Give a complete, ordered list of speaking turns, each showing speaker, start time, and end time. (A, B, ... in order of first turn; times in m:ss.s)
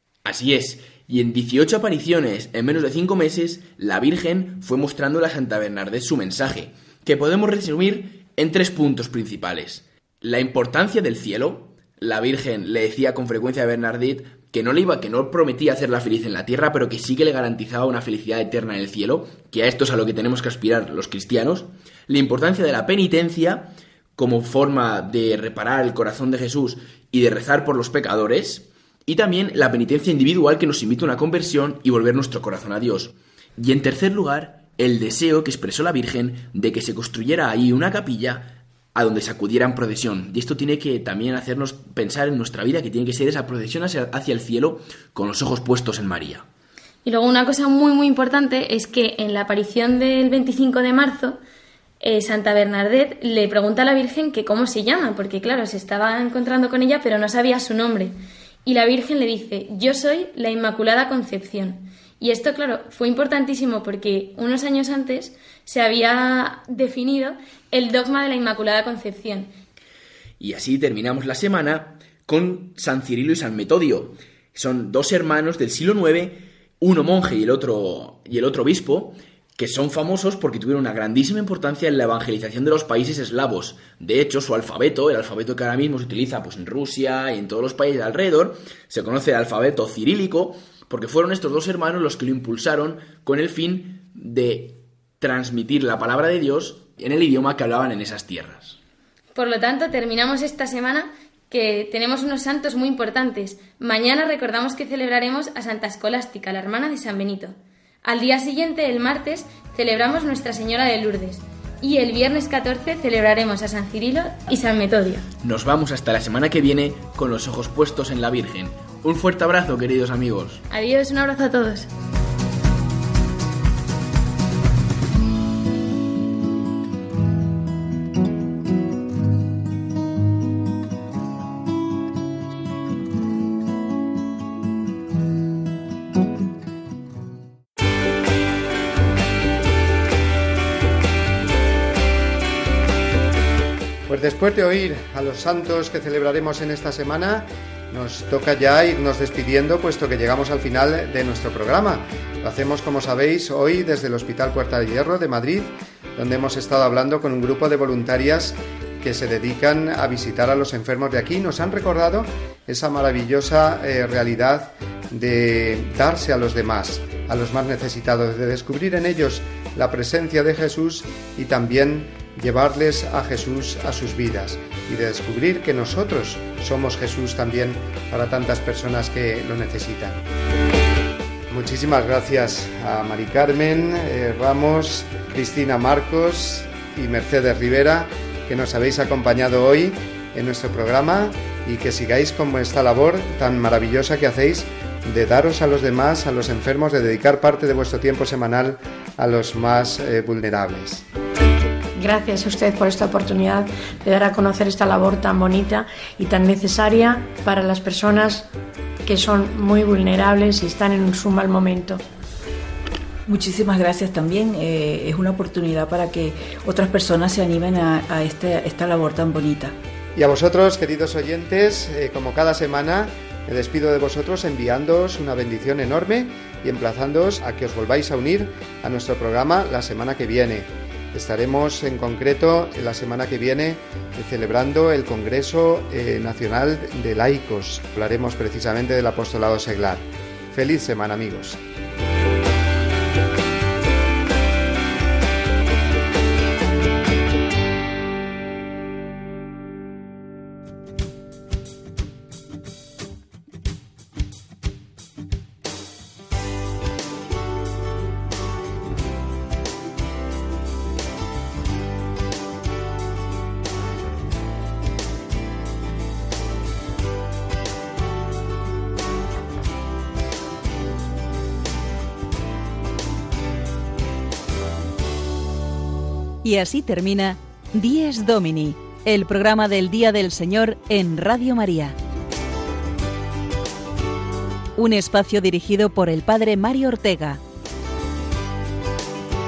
0:00.2-0:46.4 A
0:47.0-0:51.4 B
0:52.0-0:58.1 B
0:58.6-1:09.5 B
1:10.4-1:38.8 A
1:39.4-1:55.2 B
1:55.4-2:00.6 A
2:00.7-2:01.9 B
2:24.1-3:00.2 C
3:01.5-3:21.0 C
3:22.0-3:28.5 D
3:29.0-3:32.0 D
3:33.3-3:39.7 E
3:40.2-4:01.6 C
4:36.4-4:42.0 F
4:44.8-4:47.4 F